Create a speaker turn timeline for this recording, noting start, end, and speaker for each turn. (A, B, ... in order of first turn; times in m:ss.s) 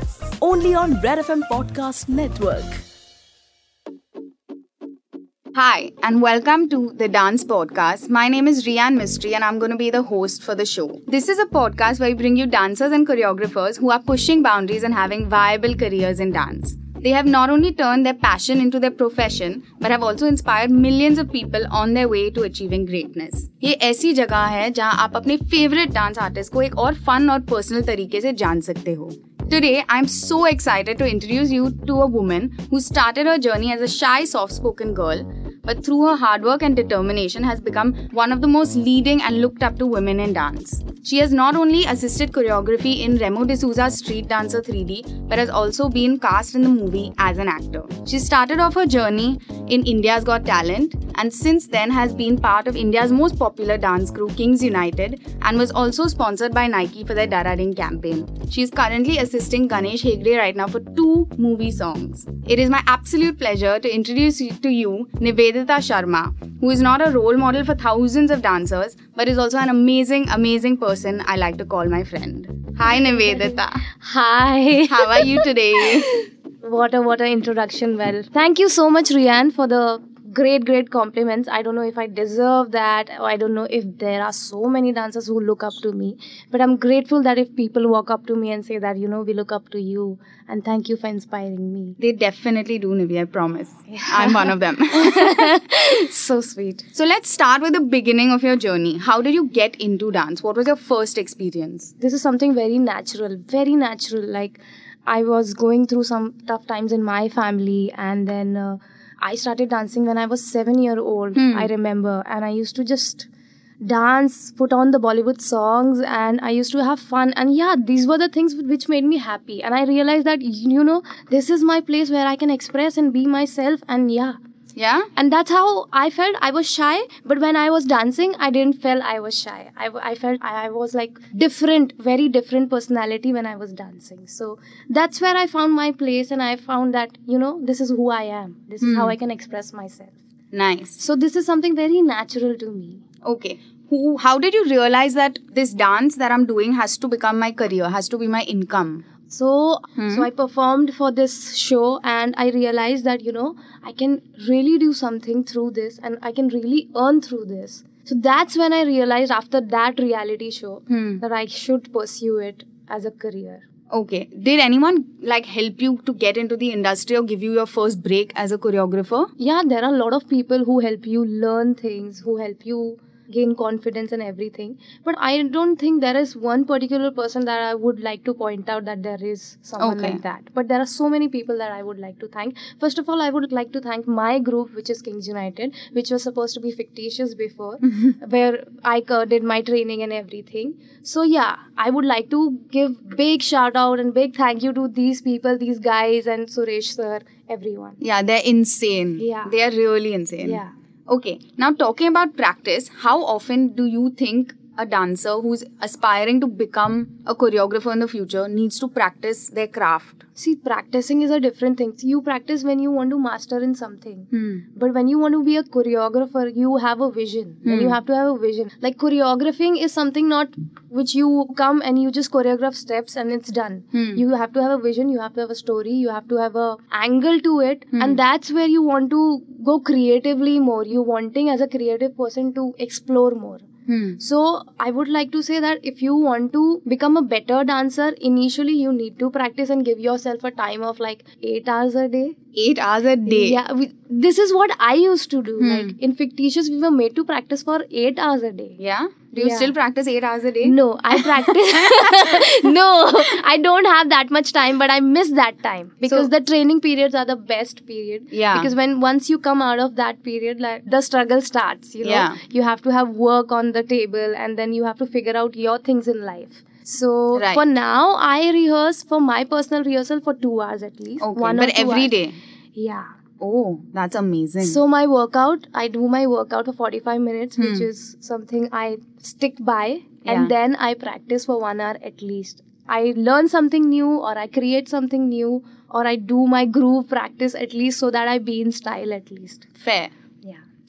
0:00.4-0:02.8 A
0:05.6-1:13.9 B
1:12.9-1:32.0 C
1:14.9-1:16.2 B
1:32.0-1:41.9 B
1:33.9-1:36.1 C
1:42.0-1:53.3 C
1:51.4-1:51.7 B
1:53.8-2:04.4 C
2:04.8-2:05.1 B
2:05.2-2:20.2 C
2:18.8-2:19.2 B
2:20.5-2:21.0 B
2:21.0-2:23.0 C
2:23.2-2:29.0 B
2:29.3-2:43.6 C
2:30.0-2:30.3 B
2:40.9-2:41.2 B
2:43.9-2:49.3 B
2:49.4-3:18.0 C
2:59.8-3:00.2 B
3:18.0-3:30.2 B
3:19.2-3:19.6 C
3:20.4-3:20.7 C
3:30.4-3:53.6 C
3:34.3-3:34.6 B
3:37.6-3:38.0 B
3:43.9-3:44.2 B
3:47.9-3:48.2 B
3:53.9-3:54.2 B
3:54.2-4:02.4 C
4:02.5-4:03.6 B
4:03.3-4:08.8 C
4:05.6-4:06.0 B
4:08.8-4:12.1 B
4:09.4-4:09.7 C
4:10.6-4:32.2 C
4:18.3-4:18.7 B
4:22.0-4:22.4 B
4:27.4-4:27.7 B
4:31.2-4:32.4 B
4:32.8-4:33.1 C
4:33.4-4:34.8 B
4:34.6-4:49.7 C
4:37.6-4:37.9 B
4:40.2-4:40.5 B
4:49.8-4:50.1 B